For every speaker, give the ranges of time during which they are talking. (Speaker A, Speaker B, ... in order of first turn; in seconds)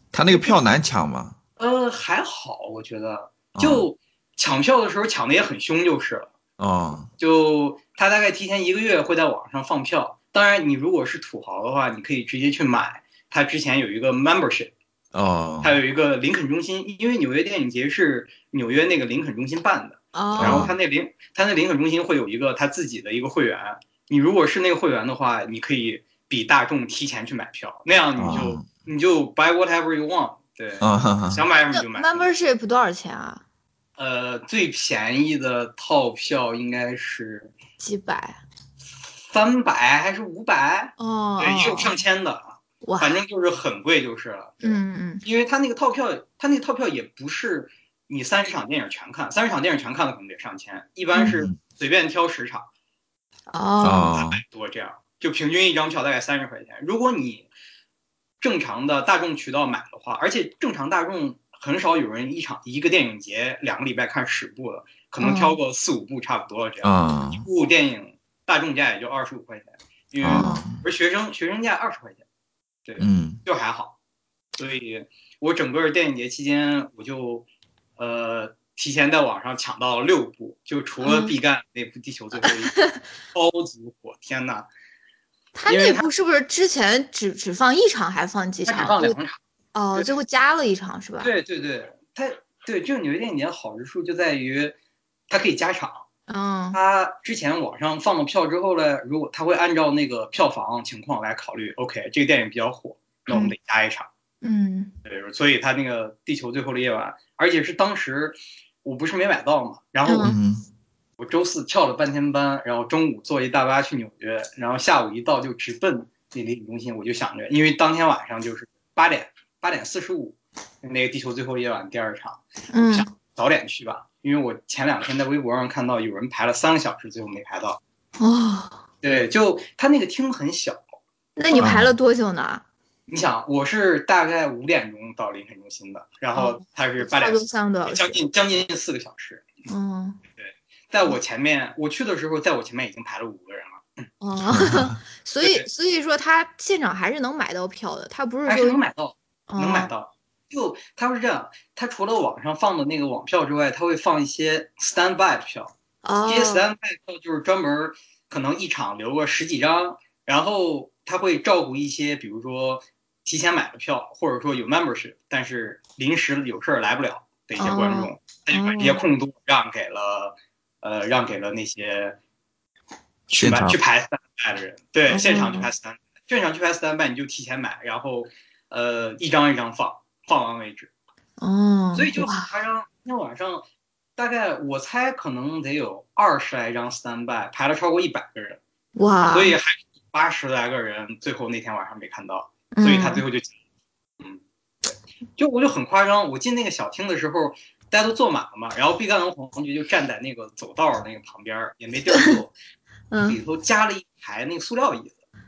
Speaker A: 0.1-1.4, 3.5-3.9, 6.6-7.1, 15.1-15.7, 20.4-20.7, 28.2-28.6, 30.8-31.4, 51.3-51.5, 53.8-54.4, 66.8-67.5, 70.2-70.8, 73.0-73.4, 110.2-110.6, 131.6-131.9, 144.5-144.8, 173.4-173.8
Speaker B: 1.6-6.3, 7.2-14.7, 15.6-32.3, 34.0-37.5, 39.3-52.7, 54.1-57.5, 58.4-72.2, 72.8-73.9, 74.6-77.5, 78.0-82.8, 83.3-84.7, 85.7-86.0, 88.6-89.4, 91.2-94.7, 95.3-96.0, 96.7-104.1, 105.0-110.3, 111.2-127.8, 129.0-130.8, 133.1-139.5, 140.4-143.8, 145.4-145.7, 148.4-155.7, 156.3-172.2, 173.3-180.9, 181.9-188.6, 189.3-193.5, 195.4-202.5, 203.2-205.1
Speaker C: 20.1-20.7, 31.7-33.4, 37.8-38.4, 41.0-41.9, 42.8-43.1, 44.6-45.2, 53.5-54.1, 65.2-65.6, 70.3-70.6, 81.0-81.3, 82.4-83.0, 85.5-89.2, 89.7-91.3, 96.3-96.8, 104.4-104.9, 110.0-110.4, 122.7-123.1, 128.2-128.8, 131.4-132.6, 136.3-138.2, 139.7-140.2, 144.2-148.8, 149.5-149.9, 156.0-156.6, 167.6-169.0, 175.1-175.7, 181.4-182.5, 188.9-189.6, 192.7-193.2, 202.1-202.4, 203.1-203.4